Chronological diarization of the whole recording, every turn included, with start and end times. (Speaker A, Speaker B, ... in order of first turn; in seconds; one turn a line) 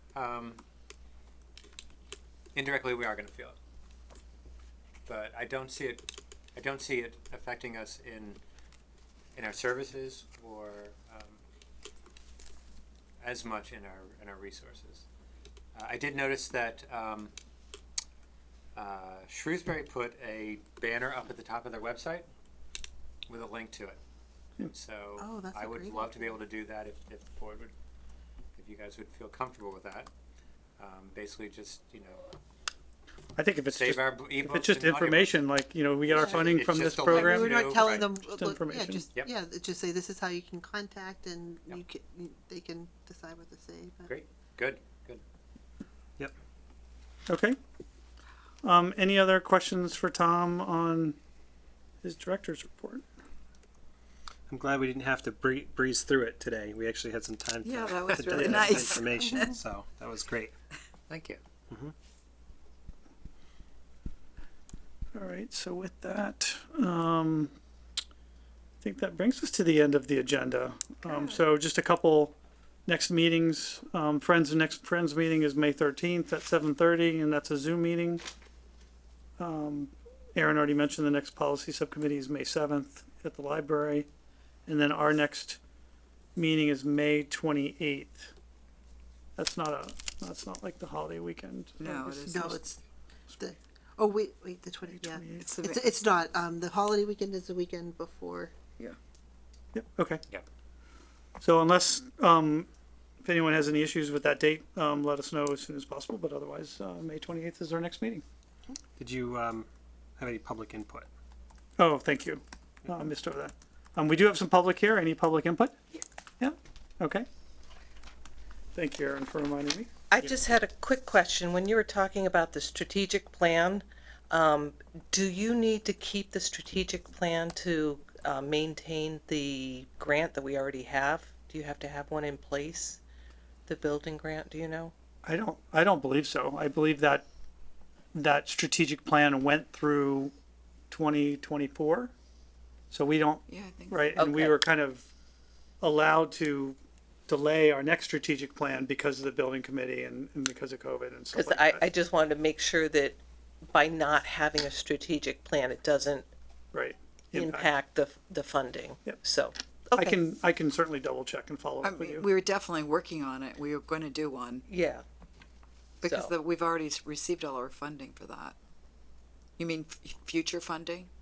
Speaker A: 0.1-0.6
Speaker A: 2.5-3.5
Speaker A: 5.0-8.4
Speaker A: 9.3-11.4
Speaker A: 13.2-15.1
Speaker A: 15.8-17.3
Speaker A: 18.8-22.3
Speaker A: 23.3-24.0
Speaker A: 24.6-27.7
Speaker B: 25.2-26.1
Speaker A: 28.6-30.1
Speaker A: 30.8-32.2
Speaker C: 33.3-39.0
Speaker A: 33.7-35.4
Speaker A: 36.1-38.1
Speaker B: 37.2-44.1
Speaker A: 44.0-45.2
Speaker C: 47.3-47.6
Speaker C: 48.6-51.2
Speaker C: 52.0-53.1
Speaker D: 54.5-60.5
Speaker E: 57.6-59.5
Speaker C: 58.4-58.8
Speaker A: 61.1-61.4
Speaker C: 65.1-67.5
Speaker C: 68.8-72.3
Speaker C: 72.8-78.2
Speaker C: 79.4-84.1
Speaker C: 84.7-85.6
Speaker C: 86.3-88.3
Speaker C: 89.3-92.6
Speaker E: 91.8-92.6
Speaker B: 92.3-92.7
Speaker B: 94.0-95.1
Speaker C: 94.8-95.6
Speaker E: 95.4-96.0
Speaker B: 95.7-98.5
Speaker C: 99.7-100.2
Speaker C: 101.4-102.7
Speaker C: 103.2-108.2
Speaker D: 109.0-109.7
Speaker D: 110.2-111.1
Speaker C: 111.8-115.8
Speaker C: 116.4-117.3
Speaker C: 118.7-120.3
Speaker F: 120.1-133.0
Speaker F: 133.7-134.9
Speaker C: 135.2-137.2
Speaker C: 138.1-140.3
Speaker C: 140.9-142.1
Speaker C: 142.9-145.1
Speaker E: 143.5-144.3
Speaker F: 144.2-144.6
Speaker C: 145.8-146.8
Speaker C: 147.3-151.8
Speaker F: 151.3-156.3
Speaker C: 156.7-157.7
Speaker F: 157.3-160.2
Speaker C: 159.9-162.3
Speaker E: 161.8-164.7
Speaker F: 164.7-165.0
Speaker E: 166.0-168.6
Speaker F: 166.0-166.3
Speaker E: 169.6-171.1